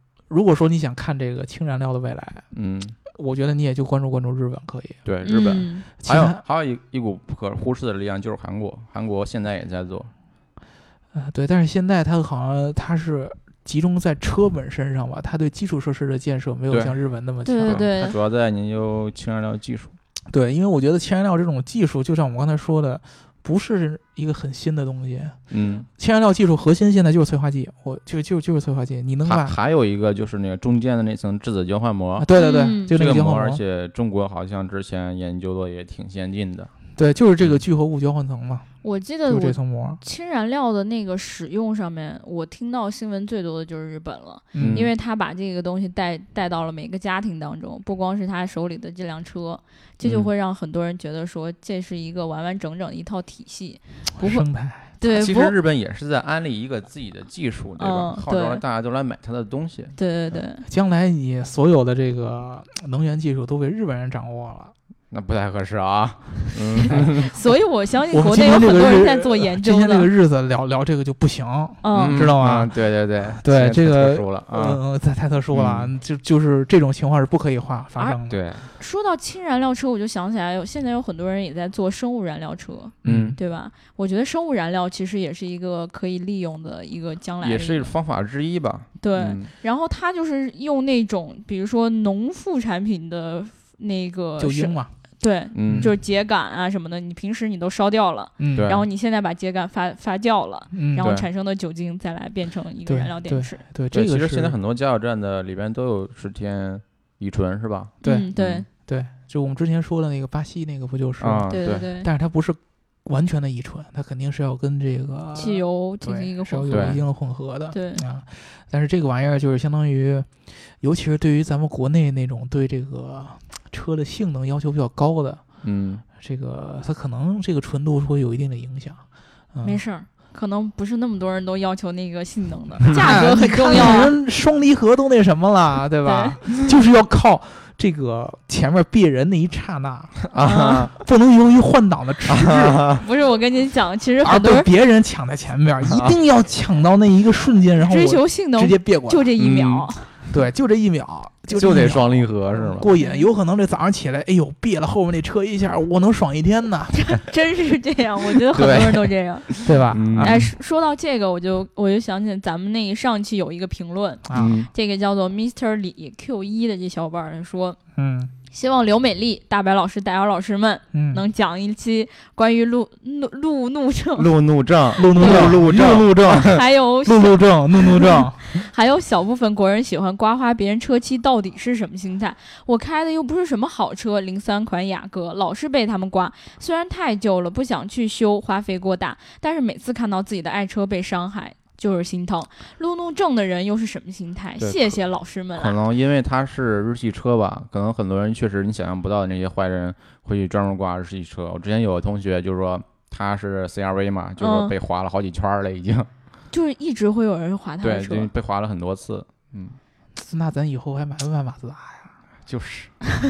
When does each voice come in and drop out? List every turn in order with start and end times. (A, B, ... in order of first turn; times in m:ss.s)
0:00.3-0:02.4 A
0:02.5-0:03.0 B
0:03.1-0:05.0 A
0:05.0-0:10.1 B
0:05.2-0:05.9 C
0:06.0-0:06.4 A
0:11.1-0:17.8 A
0:16.7-0:17.0 B
0:17.4-0:18.2 C
0:17.6-0:20.0 B
0:20.3-0:25.4 A
0:25.5-0:25.9 B
0:25.9-0:29.5 A
0:29.2-0:32.3 B
0:32.2-0:33.6 A
0:32.4-0:32.9 C
0:32.9-0:36.7 B
0:37.0-0:38.7 A
0:38.8-0:54.4 C
0:39.2-0:40.0 A
0:44.5-0:44.9 A
0:44.5-0:44.9 B
0:50.0-0:50.3 B
0:54.1-0:54.9 A
0:55.0-0:55.5 C
0:55.0-1:00.0 B
0:57.8-0:58.6 C
1:00.0-1:00.6 C
1:00.6-1:04.7 A
1:05.1-1:07.3 B
1:06.8-1:10.1 C
1:08.1-1:12.7 A
1:11.8-1:12.2 C
1:11.9-1:14.8 B
1:13.3-1:18.4 A
1:15.5-1:15.9 B
1:18.3-1:18.7 B
1:18.8-1:27.9 C
1:23.0-1:23.4 A
1:23.0-1:23.4 B
1:27.4-1:29.5 B
1:29.0-1:43.6 C
1:34.4-1:34.9 A
1:35.5-1:35.9 B
1:35.6-1:35.9 A
1:38.4-1:38.7 A
1:38.6-1:38.8 B
1:40.7-1:41.1 A
1:41.0-1:41.2 B
1:42.8-1:44.5 A
1:43.9-1:48.6 B
1:48.0-1:48.7 C
1:48.0-2:00.3 A
1:51.2-1:51.9 B
1:51.5-1:52.1 C
1:55.3-1:57.0 C
1:56.7-1:57.0 B
1:57.7-1:58.0 C
2:00.8-2:05.4 A
2:05.6-2:06.0 B
2:06.2-2:09.8 A
2:09.6-2:14.1 C
2:12.9-2:20.2 A
2:16.0-2:16.4 C
2:20.2-2:20.9 B
2:20.4-2:20.8 C
2:21.0-2:22.9 A
2:22.3-2:23.0 B
2:23.0-2:24.7 C
2:24.2-2:29.3 A
2:25.8-2:26.1 B
2:27.8-2:30.1 C
2:29.4-2:29.9 B
2:30.3-2:36.9 A
2:31.5-2:32.9 B
2:32.9-2:33.3 C
2:36.9-2:47.8 C
2:38.5-2:40.5 B
2:39.6-2:40.5 A
2:44.2-2:44.6 A
2:44.3-2:44.7 B
2:48.0-2:48.3 A
2:48.5-2:54.3 C
2:50.9-2:51.2 A
2:54.2-2:56.6 B
2:55.0-2:55.6 C
2:55.0-2:58.4 A
2:56.2-3:15.8 C
3:14.6-3:15.0 B
3:15.5-3:26.1 B
3:24.4-3:24.7 C
3:26.5-3:28.3 C
3:27.8-3:29.8 B
3:30.1-3:32.1 A
3:32.4-3:33.0 B